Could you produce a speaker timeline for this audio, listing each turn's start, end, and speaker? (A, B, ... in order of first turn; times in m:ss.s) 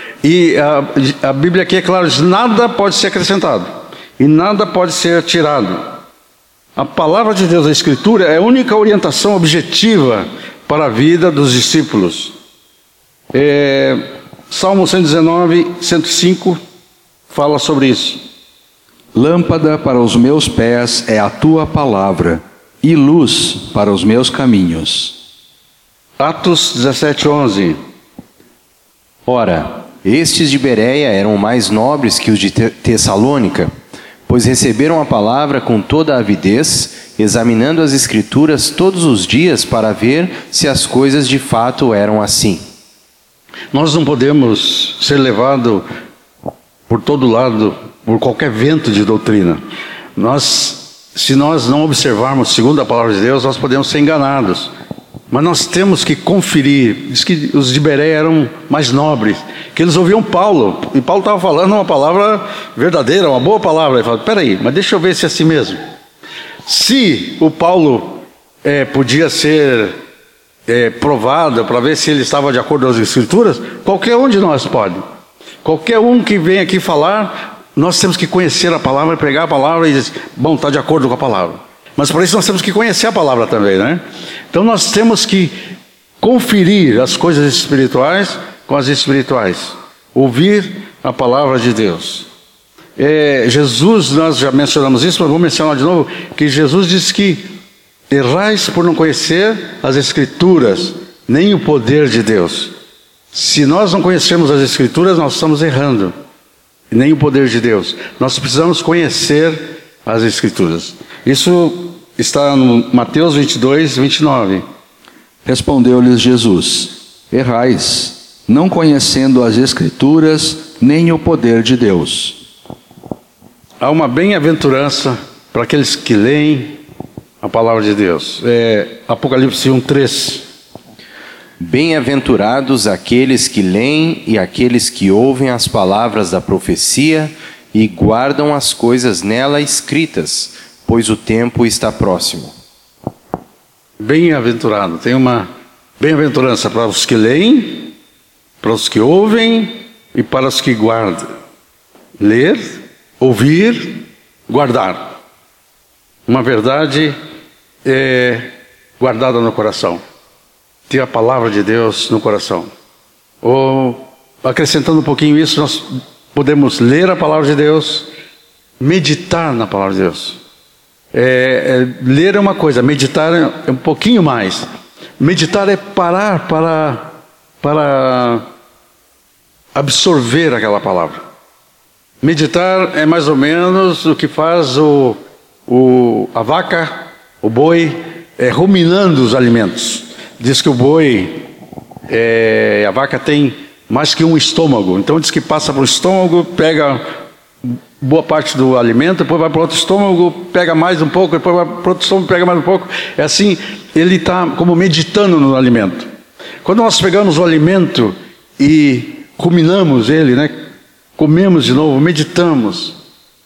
0:00.2-0:06.0 A
0:06.8-0:12.3 A
0:13.3-0:16.6 A
0:17.3-0:18.2 A
0:19.1-0:25.2 B
0:26.2-0:27.8 A
0:29.2-0:33.7 C
0:34.3-0:42.6 C
0:43.7-0:45.8 A
0:46.9-0:49.6 A
0:50.2-0:54.7 A
0:55.3-1:05.8 A
1:06.6-1:10.0 A
1:10.7-1:15.0 A
1:15.6-1:24.0 A
1:24.5-1:25.5 A
1:26.2-1:32.3 A
1:33.0-1:37.4 A
1:38.1-1:42.7 A
1:43.3-1:46.1 A
1:46.9-1:54.6 A
1:55.4-2:02.4 B
2:03.8-2:06.8 A
2:07.4-2:10.5 A
2:11.6-2:22.5 C
2:24.0-2:25.5 A
2:26.0-2:28.0 A
2:28.6-2:31.3 A
2:32.2-2:35.2 A
2:36.3-2:37.1 A
2:37.8-2:40.0 A
2:40.9-2:42.7 A
2:43.4-2:48.1 A
2:48.8-2:50.4 A
2:51.1-2:54.7 A
2:55.2-2:58.4 A
2:59.7-3:01.2 A
3:02.2-3:11.4 A
3:12.1-3:17.0 A
3:17.6-3:26.1 A
3:26.6-3:30.5 A
3:31.2-3:33.0 A